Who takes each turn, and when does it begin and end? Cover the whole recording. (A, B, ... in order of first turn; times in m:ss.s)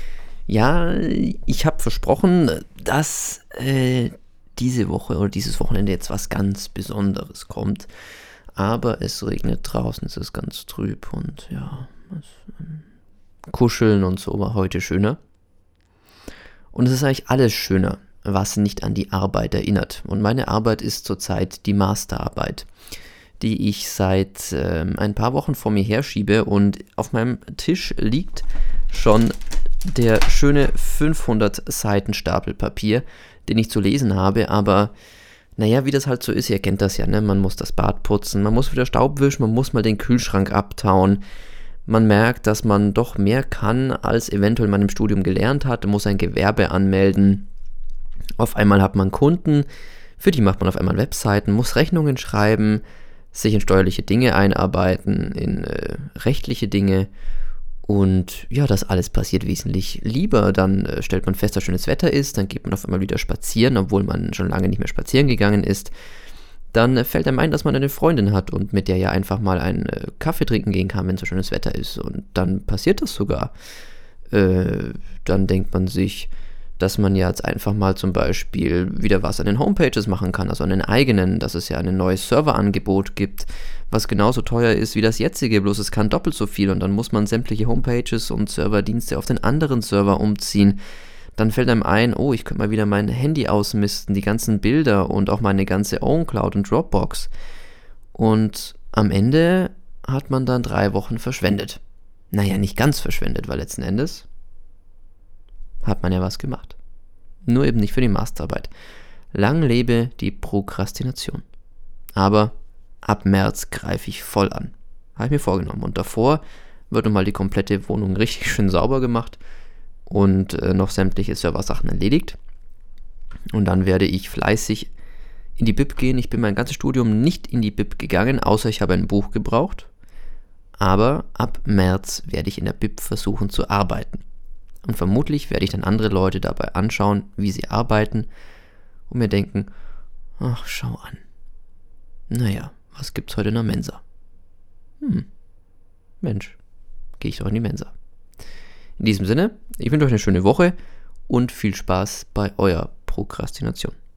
0:00.5-0:07.9 A
0:08.6-0:12.8 A
0:13.5-0:15.2 A
0:16.7-0:22.7 A
0:23.4-0:29.3 A
0:29.8-0:34.9 A
0:35.6-0:41.2 A
0:41.8-0:47.5 A
0:48.4-0:49.7 A
0:50.2-0:57.1 A
0:57.8-1:05.9 A
1:06.7-1:13.5 A
1:14.3-1:30.8 A
1:31.4-1:37.3 A
1:38.1-1:41.8 A
1:42.3-1:44.2 A
1:45.8-1:46.8 A
1:47.4-1:48.7 A
1:49.3-1:51.4 A
1:52.2-1:59.4 A
2:00.0-2:02.4 A
2:03.5-2:04.9 A
2:05.6-2:09.9 A
2:10.8-2:14.2 A
2:14.8-2:18.3 A
2:19.1-2:19.7 A
2:20.4-2:21.2 A
2:22.3-2:24.0 A
2:25.0-2:25.3 A
2:26.2-2:26.6 A
2:27.2-2:27.9 A
2:29.0-2:30.8 A
2:31.3-2:34.0 A